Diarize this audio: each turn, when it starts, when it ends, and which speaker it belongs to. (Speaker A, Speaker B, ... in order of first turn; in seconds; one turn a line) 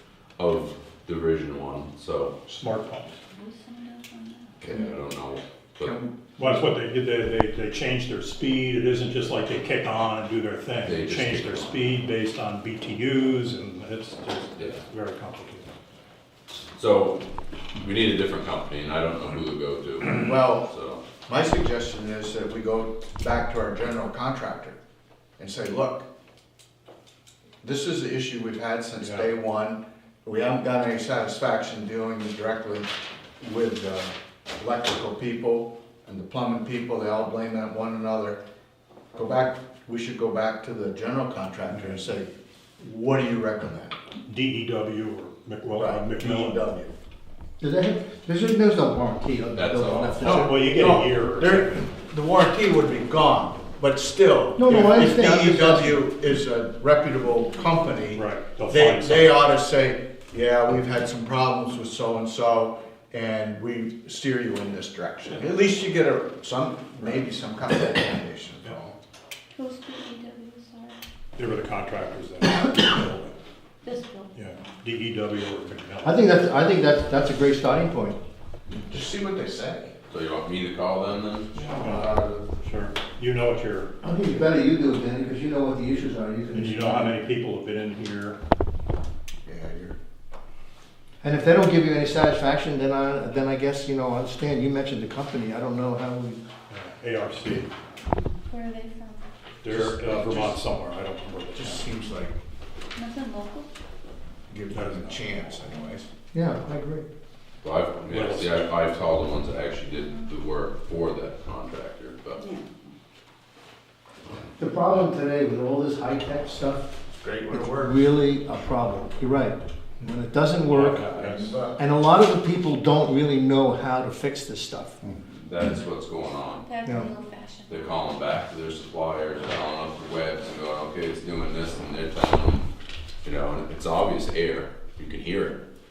Speaker A: 0.4-2.4
Speaker B: 2.5-3.2
Speaker C: 3.3-4.6
Speaker A: 4.6-6.0
Speaker D: 5.8-6.6
Speaker B: 6.3-15.7
Speaker A: 10.8-11.8
Speaker A: 16.7-17.2
Speaker A: 17.8-21.0
Speaker D: 20.0-20.7
Speaker D: 21.2-24.8
Speaker D: 25.4-26.1
Speaker D: 27.6-38.4
Speaker B: 29.0-29.3
Speaker D: 39.1-44.0
Speaker B: 41.7-42.0
Speaker B: 44.2-46.6
Speaker D: 45.7-46.9
Speaker E: 47.6-50.6
Speaker A: 49.5-50.5
Speaker B: 50.2-51.9
Speaker D: 50.5-69.0
Speaker E: 54.6-56.1
Speaker B: 58.1-59.4
Speaker C: 69.5-71.0
Speaker B: 71.3-73.3
Speaker C: 73.8-74.3
Speaker B: 74.3-76.3
Speaker E: 76.0-78.2
Speaker D: 78.7-79.9
Speaker A: 80.1-81.5
Speaker D: 81.5-82.5
Speaker B: 81.5-83.9
Speaker E: 84.0-87.2
Speaker B: 86.5-88.4
Speaker D: 89.4-90.0
Speaker E: 91.2-96.4
Speaker B: 96.7-97.7
Speaker C: 98.2-99.3
Speaker B: 99.6-101.9
Speaker D: 99.6-100.6
Speaker D: 101.5-102.4
Speaker C: 102.9-103.7
Speaker D: 104.5-106.1
Speaker B: 104.7-105.3
Speaker E: 106.3-107.0
Speaker A: 107.6-112.4
Speaker B: 108.1-108.7
Speaker C: 109.9-110.3
Speaker C: 112.3-112.9
Speaker E: 114.6-116.9
Speaker D: 117.2-118.0
Speaker E: 117.5-121.1
Speaker B: 120.7-121.5
Speaker D: 120.9-121.8
Speaker E: 121.8-125.0
Speaker A: 125.3-126.7
Speaker C: 126.5-128.1
Speaker E: 126.8-127.1
Speaker A: 127.7-132.7
Speaker A: 133.2-135.6